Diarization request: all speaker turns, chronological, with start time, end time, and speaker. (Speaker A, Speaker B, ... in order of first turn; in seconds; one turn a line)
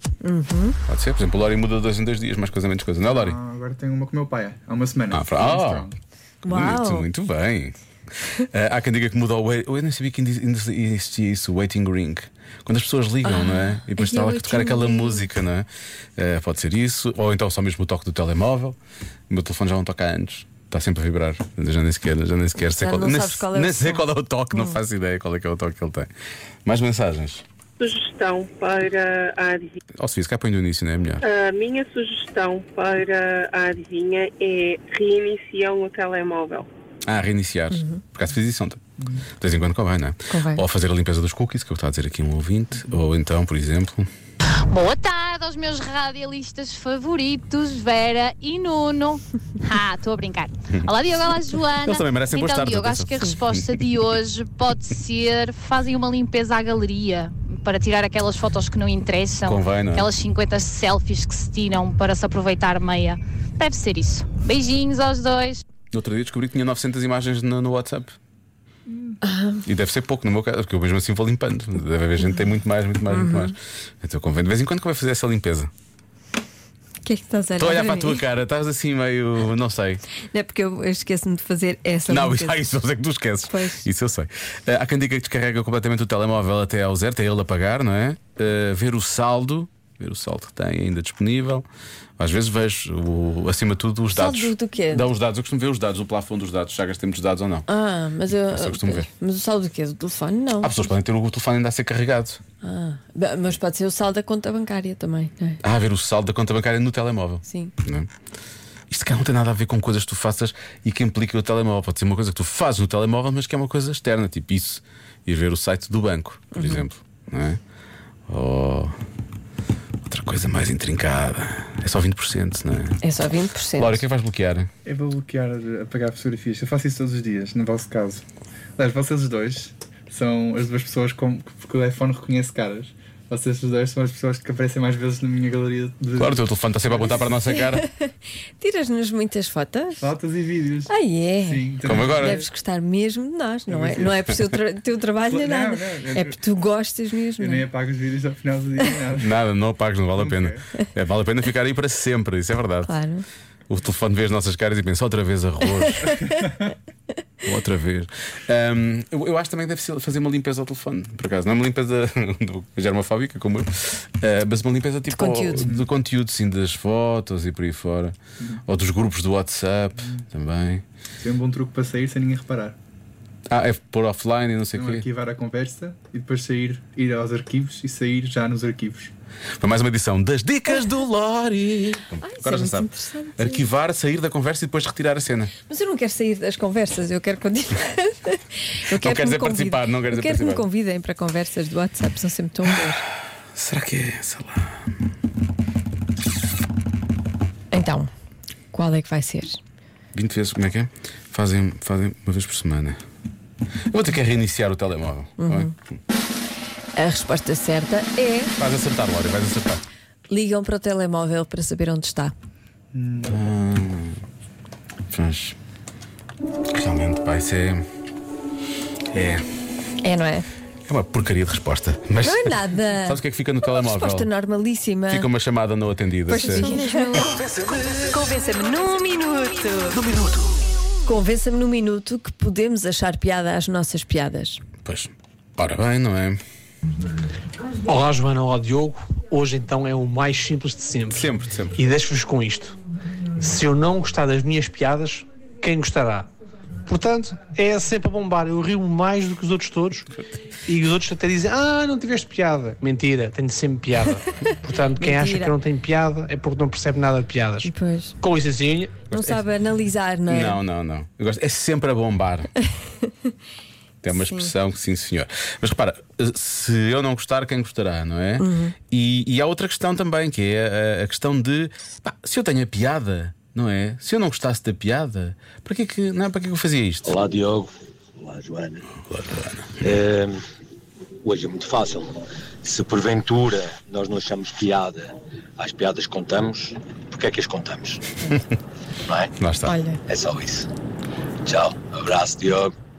Speaker A: 0.2-0.8
Speaker B: 0.9-3.4
Speaker C: 3.1-6.0
Speaker B: 5.1-5.9
Speaker A: 6.5-7.1
Speaker B: 6.5-7.8
Speaker B: 8.4-18.8
Speaker A: 13.2-15.3
Speaker B: 19.3-26.1
Speaker A: 22.8-24.8
Speaker B: 26.6-27.4
Speaker D: 27.8-29.8
Speaker B: 30.0-31.2
Speaker D: 31.2-36.7
Speaker B: 37.1-38.8
Speaker B: 39.4-44.1
Speaker A: 40.3-40.6
Speaker E: 44.7-65.6
Speaker B: 51.8-53.8
Speaker B: 59.5-60.1
Speaker B: 65.9-68.2
Speaker A: 69.2-69.6
Speaker B: 69.7-75.7
Speaker A: 73.1-73.5
Speaker A: 77.0-78.2
Speaker B: 77.6-80.0
Speaker A: 80.3-82.6
Speaker B: 82.1-91.7
Speaker A: 83.5-83.9
Speaker B: 92.2-97.7
Speaker A: 94.1-95.1
Speaker A: 97.7-100.8
Speaker B: 98.5-99.1
Speaker B: 100.6-102.4
Speaker A: 102.6-105.6
Speaker B: 105.6-108.1
Speaker A: 107.5-107.7
Speaker B: 108.9-117.6
Speaker A: 116.5-116.8
Speaker B: 118.3-119.0
Speaker B: 120.1-123.0
Speaker A: 123.0-124.0
Speaker B: 123.8-124.7
Speaker C: 124.9-128.2
Speaker C: 128.8-137.3
Speaker B: 136.2-137.8
Speaker A: 137.5-140.1
Speaker C: 140.0-142.5
Speaker A: 140.9-147.7
Speaker B: 141.9-142.4
Speaker C: 143.7-144.3
Speaker C: 145.3-146.4
Speaker C: 147.4-149.3
Speaker B: 149.2-152.9
Speaker C: 150.2-150.6
Speaker A: 152.9-153.2
Speaker B: 153.7-156.2
Speaker A: 156.0-156.4
Speaker B: 157.4-170.8
Speaker A: 165.1-165.7
Speaker C: 171.2-172.8
Speaker B: 173.5-175.1
Speaker C: 174.8-179.1
Speaker B: 179.6-185.5
Speaker A: 182.2-183.7
Speaker A: 185.7-193.0
Speaker B: 188.9-190.7
Speaker B: 193.5-194.9
Speaker A: 197.7-198.1
Speaker A: 198.7-199.6
Speaker B: 200.1-203.0
Speaker B: 203.9-206.0
Speaker A: 205.4-205.7
Speaker A: 207.0-208.5
Speaker B: 208.6-209.8
Speaker A: 210.3-212.3
Speaker C: 212.9-213.4
Speaker B: 213.2-214.2
Speaker B: 215.1-215.6
Speaker B: 216.7-217.9
Speaker B: 219.1-219.5
Speaker A: 220.0-220.5
Speaker B: 220.9-224.3
Speaker A: 222.2-223.2
Speaker A: 223.8-225.3
Speaker B: 225.1-228.0
Speaker A: 226.3-227.4
Speaker A: 228.1-230.0
Speaker B: 229.9-230.6
Speaker A: 231.1-234.6
Speaker B: 234.8-236.4
Speaker F: 237.8-242.8
Speaker B: 241.1-241.8
Speaker F: 243.4-246.3
Speaker F: 246.9-250.1
Speaker F: 250.7-257.7
Speaker A: 255.0-255.5
Speaker A: 257.6-258.1
Speaker F: 258.2-259.1
Speaker B: 259.1-259.4
Speaker A: 259.1-260.6
Speaker B: 260.3-262.5
Speaker B: 264.0-277.2
Speaker A: 264.1-264.5
Speaker A: 268.4-268.8
Speaker G: 277.1-278.9
Speaker B: 279.1-279.9
Speaker G: 279.8-280.4
Speaker G: 281.2-288.0
Speaker G: 289.1-289.3
Speaker B: 289.4-289.8
Speaker A: 289.6-290.0
Speaker G: 290.1-290.7
Speaker G: 291.4-292.7